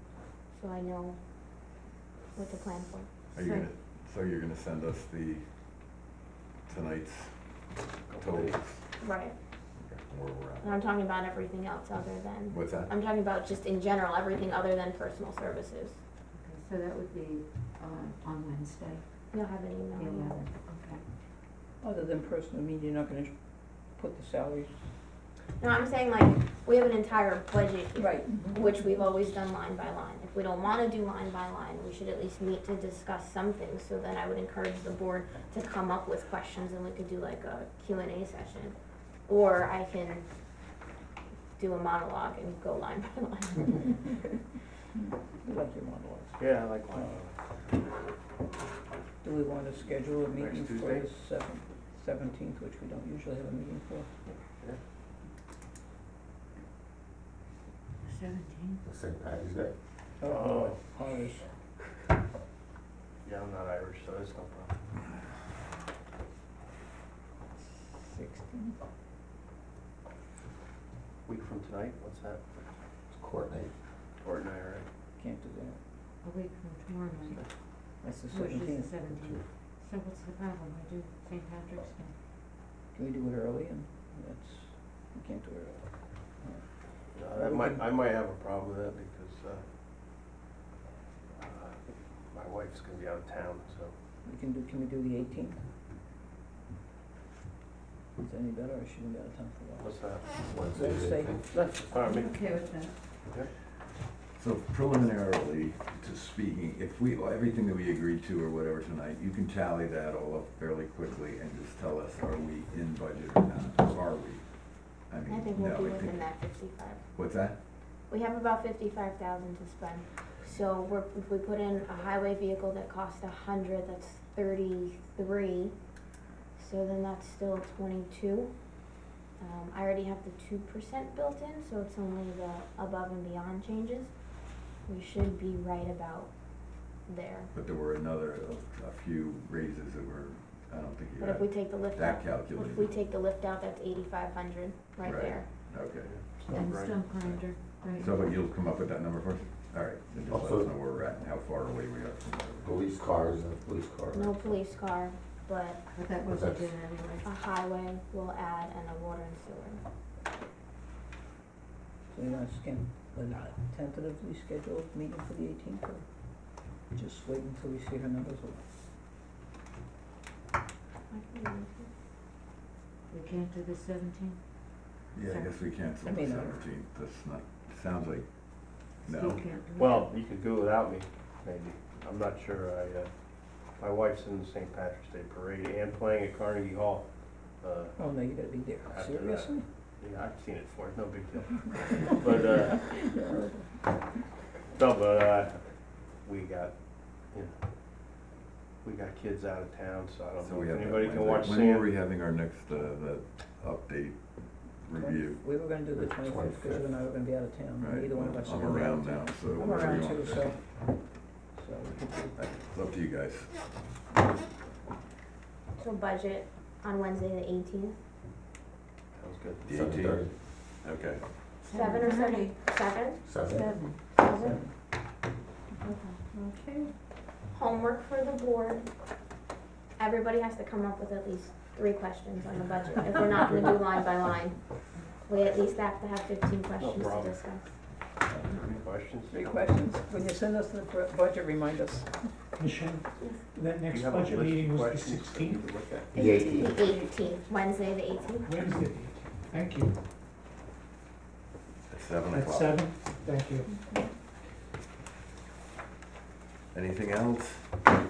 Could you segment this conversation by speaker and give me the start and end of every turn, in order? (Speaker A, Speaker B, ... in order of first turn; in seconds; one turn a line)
Speaker A: 0.5-1.2
Speaker A: 2.4-3.1
Speaker B: 3.3-5.5
Speaker C: 3.4-3.7
Speaker B: 6.7-7.3
Speaker D: 8.1-8.6
Speaker B: 8.2-8.8
Speaker A: 9.0-9.3
Speaker B: 9.8-10.8
Speaker A: 10.6-16.0
Speaker B: 12.5-12.9
Speaker C: 16.4-19.0
Speaker A: 19.3-20.4
Speaker C: 19.9-21.0
Speaker E: 21.8-23.3
Speaker E: 23.9-24.7
Speaker A: 25.6-38.8
Speaker E: 28.0-28.6
Speaker A: 39.3-40.3
Speaker A: 41.6-44.0
Speaker E: 45.4-47.1
Speaker D: 46.4-47.3
Speaker E: 49.2-54.1
Speaker D: 50.2-51.1
Speaker C: 58.0-58.8
Speaker F: 58.8-59.7
Speaker E: 60.2-61.5
Speaker D: 60.2-60.8
Speaker D: 63.2-64.7
Speaker E: 67.7-68.8
Speaker D: 71.3-72.5
Speaker F: 73.1-73.7
Speaker D: 74.2-74.9
Speaker E: 75.2-75.8
Speaker C: 76.2-77.4
Speaker E: 78.0-79.0
Speaker C: 78.3-82.1
Speaker E: 82.9-85.8
Speaker D: 87.2-89.6
Speaker E: 87.3-88.0
Speaker D: 91.4-93.9
Speaker E: 94.2-95.6
Speaker E: 98.2-99.9
Speaker D: 99.8-100.5
Speaker F: 100.5-101.4
Speaker E: 100.7-101.5
Speaker D: 101.5-102.7
Speaker C: 102.0-102.9
Speaker B: 104.4-114.4
Speaker B: 115.1-116.2
Speaker A: 115.3-117.0
Speaker B: 117.2-117.6
Speaker A: 118.1-125.7
Speaker A: 126.6-128.5
Speaker A: 129.4-134.1
Speaker A: 134.9-136.3
Speaker A: 137.1-137.5
Speaker B: 137.5-142.9
Speaker A: 141.2-145.5
Speaker B: 145.0-146.1
Speaker D: 146.1-147.1
Speaker C: 146.5-148.1
Speaker B: 148.0-152.7
Speaker F: 150.3-150.7
Speaker F: 152.6-154.5
Speaker A: 154.1-155.8
Speaker C: 155.9-157.3
Speaker F: 156.2-156.7
Speaker A: 157.2-159.8
Speaker E: 162.1-166.0
Speaker E: 166.9-168.6
Speaker A: 171.1-171.9
Speaker C: 173.1-174.4
Speaker B: 175.1-178.3
Speaker C: 175.3-175.6
Speaker E: 176.0-176.6
Speaker B: 179.1-179.4
Speaker C: 179.1-180.1
Speaker D: 179.8-183.1
Speaker D: 183.8-187.1
Speaker D: 187.6-188.0
Speaker E: 188.0-189.7
Speaker D: 188.8-193.0
Speaker E: 192.3-193.7
Speaker D: 194.7-195.6
Speaker D: 196.2-196.7
Speaker D: 198.8-201.9
Speaker B: 200.4-204.2
Speaker B: 204.8-205.4
Speaker E: 204.9-210.6
Speaker F: 205.9-206.9
Speaker B: 207.8-210.5
Speaker E: 211.6-212.4
Speaker B: 212.4-213.6
Speaker A: 215.8-218.0
Speaker D: 219.2-219.8
Speaker B: 219.7-220.2
Speaker F: 219.7-220.3
Speaker B: 220.8-221.2
Speaker A: 221.6-223.3
Speaker C: 221.7-222.6
Speaker F: 223.3-223.8
Speaker C: 223.4-224.0
Speaker A: 224.1-224.6
Speaker A: 225.9-226.1
Speaker E: 226.3-226.9
Speaker A: 227.5-228.9
Speaker A: 230.0-234.6
Speaker A: 235.3-237.7
Speaker D: 236.8-237.4
Speaker D: 238.3-239.6
Speaker E: 239.3-242.3
Speaker G: 242.5-245.7
Speaker D: 243.9-246.2
Speaker F: 246.2-246.8
Speaker A: 246.2-248.6
Speaker G: 248.4-249.9
Speaker B: 251.9-252.9
Speaker G: 252.3-253.7
Speaker A: 253.7-254.0
Speaker B: 256.7-257.6